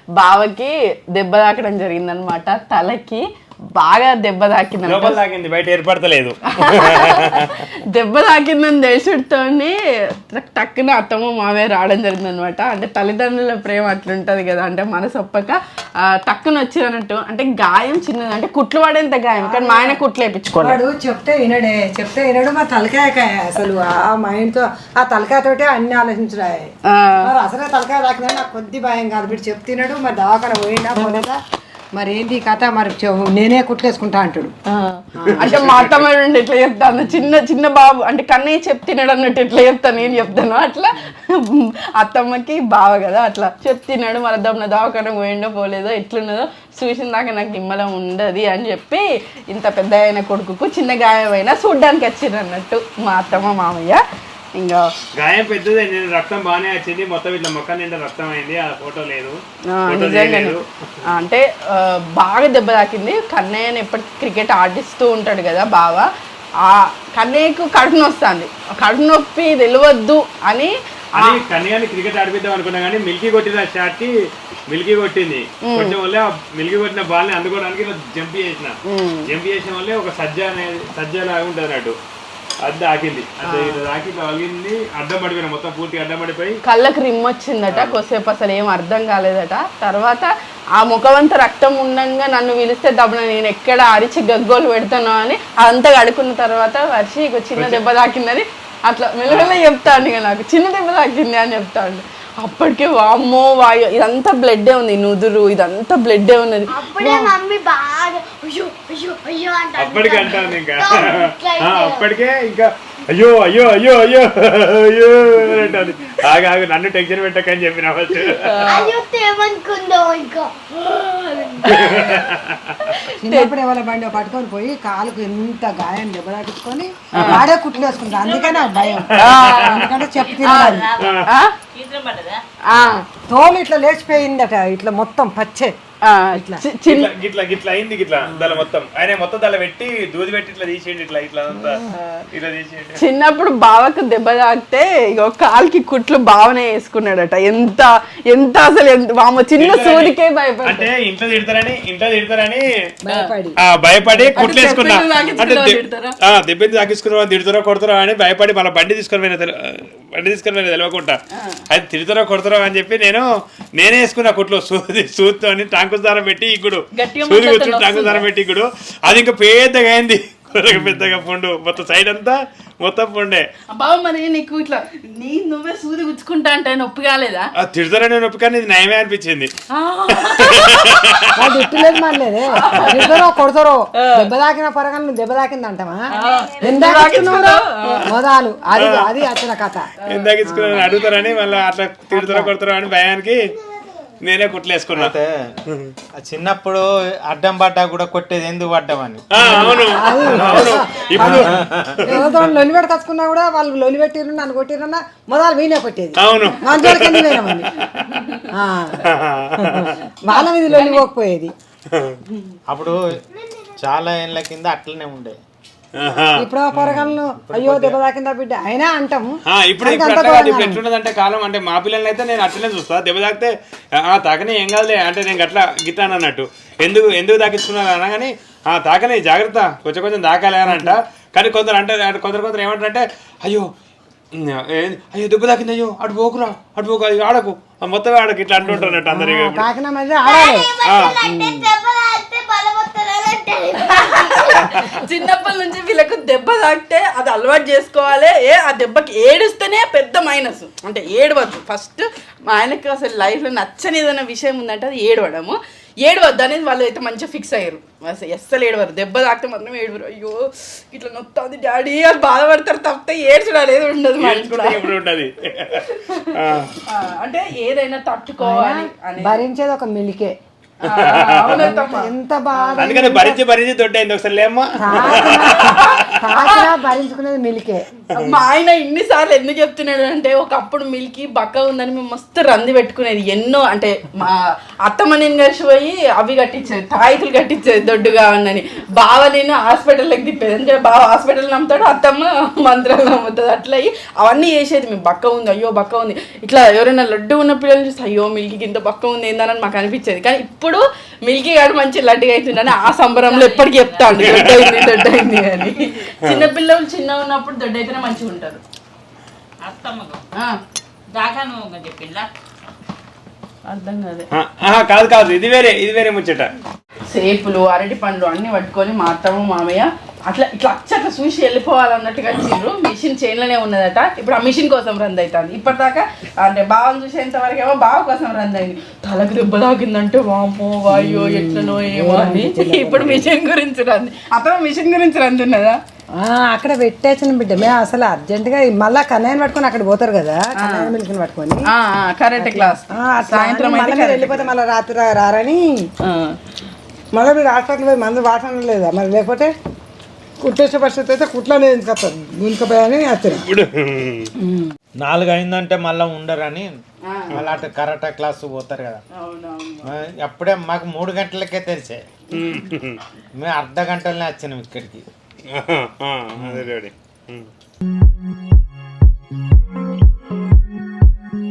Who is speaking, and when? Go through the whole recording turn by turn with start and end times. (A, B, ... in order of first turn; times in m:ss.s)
0:00.1-0:03.2 A
0:03.8-0:05.2 A
0:04.8-0:07.6 B
0:06.5-0:15.6 A
0:16.1-0:20.8 A
0:19.4-0:20.0 C
0:20.6-0:31.4 C
0:26.9-0:27.3 A
0:31.9-0:34.5 C
0:34.7-0:54.0 A
0:35.1-0:35.5 C
0:35.2-0:36.1 B
0:54.6-0:54.9 A
0:55.1-1:00.6 B
0:59.7-1:06.1 A
1:06.6-1:11.4 A
1:11.2-1:14.1 B
1:14.7-1:18.8 B
1:15.6-1:15.9 A
1:18.9-1:19.2 A
1:19.3-1:21.9 B
1:22.6-1:26.6 B
1:23.4-1:23.8 A
1:26.6-1:47.3 A
1:27.7-1:28.0 B
1:37.5-1:37.8 B
1:39.3-1:39.6 B
1:46.7-1:52.1 D
1:49.8-1:58.6 B
1:58.3-1:59.0 A
1:58.7-2:01.2 D
2:01.6-2:02.1 A
2:01.6-2:02.9 B
2:02.8-2:03.5 A
2:03.2-2:10.9 C
2:07.1-2:07.4 A
2:07.1-2:07.4 B
2:07.8-2:09.1 E
2:09.1-2:09.9 B
2:09.1-2:09.9 A
2:10.1-2:12.4 E
2:10.4-2:11.5 A
2:11.0-2:11.3 B
2:12.7-2:13.0 A
2:13.3-2:15.7 C
2:16.0-2:17.1 A
2:16.3-2:16.6 C
2:16.8-2:23.0 B
2:21.9-2:22.2 A
2:23.0-2:30.9 A
2:29.6-2:32.7 B
2:33.0-2:34.6 C
2:33.6-2:41.2 B
2:34.4-2:36.2 A
2:41.4-2:41.6 A
2:41.7-2:53.4 B
2:46.9-2:48.3 A
2:53.7-2:57.5 A
2:57.6-2:59.5 B
2:59.8-3:01.3 A
3:00.1-3:01.9 B
3:01.3-3:06.0 C
3:02.5-3:03.3 A
3:02.8-3:03.1 B
3:04.0-3:04.3 A
3:06.2-3:08.1 A
3:06.2-3:06.7 E
3:06.6-3:09.9 C
3:07.0-3:07.4 B
3:08.7-3:09.1 B
3:10.0-3:10.3 A
3:10.1-3:13.5 B
3:10.4-3:10.9 C
3:12.1-3:12.5 C
3:14.2-3:15.1 B
3:14.9-3:15.3 F
3:16.2-3:19.5 F
3:19.3-3:22.5 B
3:19.4-3:27.7 C
3:20.2-3:20.7 F
3:21.3-3:22.1 F
3:26.2-3:28.1 B
3:28.1-3:28.3 A
3:28.5-3:29.0 C
3:29.0-3:30.0 B
3:29.6-3:31.5 C
3:30.8-3:31.0 A
3:31.9-3:32.2 B
3:32.7-3:35.4 F
3:36.0-3:37.1 B
3:36.4-3:40.8 C
3:37.4-3:38.0 F
3:39.5-3:53.7 B
3:50.7-3:50.9 C
3:54.3-3:59.7 B
3:58.6-4:01.7 C
4:00.2-4:04.6 D
4:00.8-4:01.2 B
4:03.8-4:24.9 A
4:24.2-4:26.7 B
4:25.7-4:26.3 A
4:26.8-4:29.4 A
4:28.4-4:30.3 C
4:30.8-4:33.0 A
4:30.9-4:31.7 B
4:31.5-4:33.4 C
4:32.8-4:36.1 B
4:34.8-4:37.9 C
4:34.9-4:36.7 A
4:38.1-5:08.6 A
4:38.1-4:38.4 B
5:03.2-5:04.5 E
5:04.1-5:05.1 B
5:06.2-5:06.5 B
5:09.6-5:10.2 E
5:11.1-5:12.3 E
5:13.7-5:14.2 A
5:14.3-5:16.5 B
5:17.1-5:35.8 A
5:30.9-5:33.3 C
5:36.2-5:41.6 C
5:40.6-5:40.9 A
5:41.7-5:44.5 A
5:42.4-5:45.8 C
5:46.0-5:46.4 A
5:47.1-5:49.5 C
5:50.4-5:53.5 C
5:53.3-5:54.3 B
5:54.4-5:54.7 C
5:55.0-5:56.7 F
5:57.0-5:57.4 A
5:57.3-5:59.0 F
5:59.2-5:59.9 A
5:59.8-6:02.0 F
6:02.3-6:03.0 B
6:03.4-6:05.1 F
6:05.5-6:07.5 B
6:06.4-6:06.6 F